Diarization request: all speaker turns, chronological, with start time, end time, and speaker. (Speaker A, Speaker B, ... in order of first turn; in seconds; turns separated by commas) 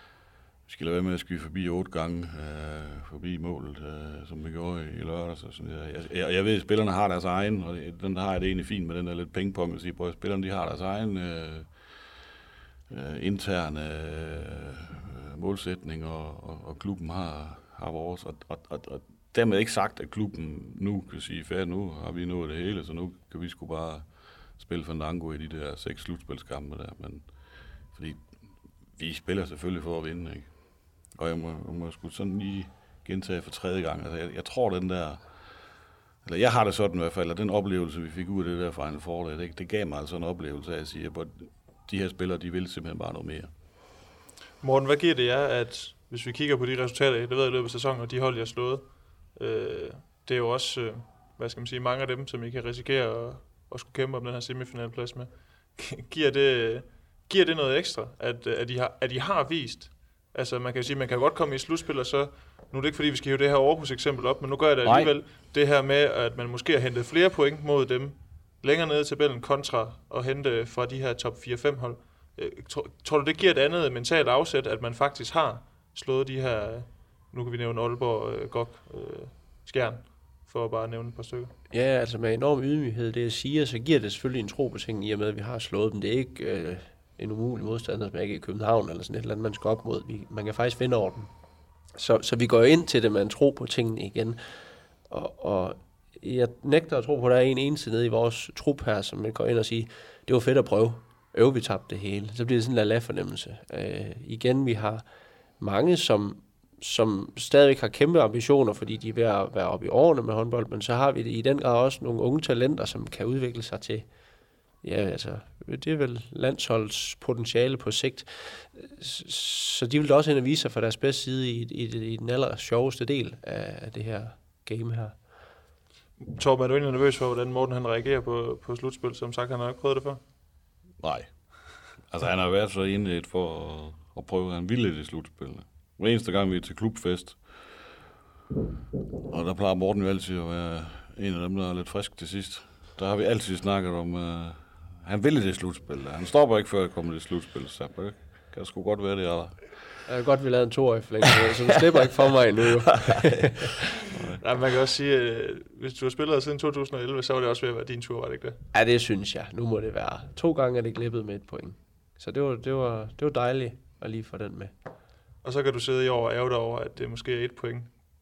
Speaker A: 0.7-11.9, Speaker A: 12.9-27.3, Speaker A: 27.9-28.3, Speaker A: 28.9-30.5, Speaker A: 31.1-35.2, Speaker A: 36.2-43.5, Speaker B: 44.6-81.5, Speaker A: 64.8-65.1, Speaker C: 81.7-91.3, Speaker C: 92.0-94.4, Speaker C: 95.1-105.0, Speaker C: 105.6-114.1, Speaker C: 114.8-125.2, Speaker B: 126.2-130.2, Speaker A: 131.0-137.6, Speaker A: 139.3-149.7, Speaker C: 150.1-153.8, Speaker A: 154.1-154.4, Speaker B: 154.4-158.6, Speaker C: 158.7-164.7, Speaker B: 165.4-167.9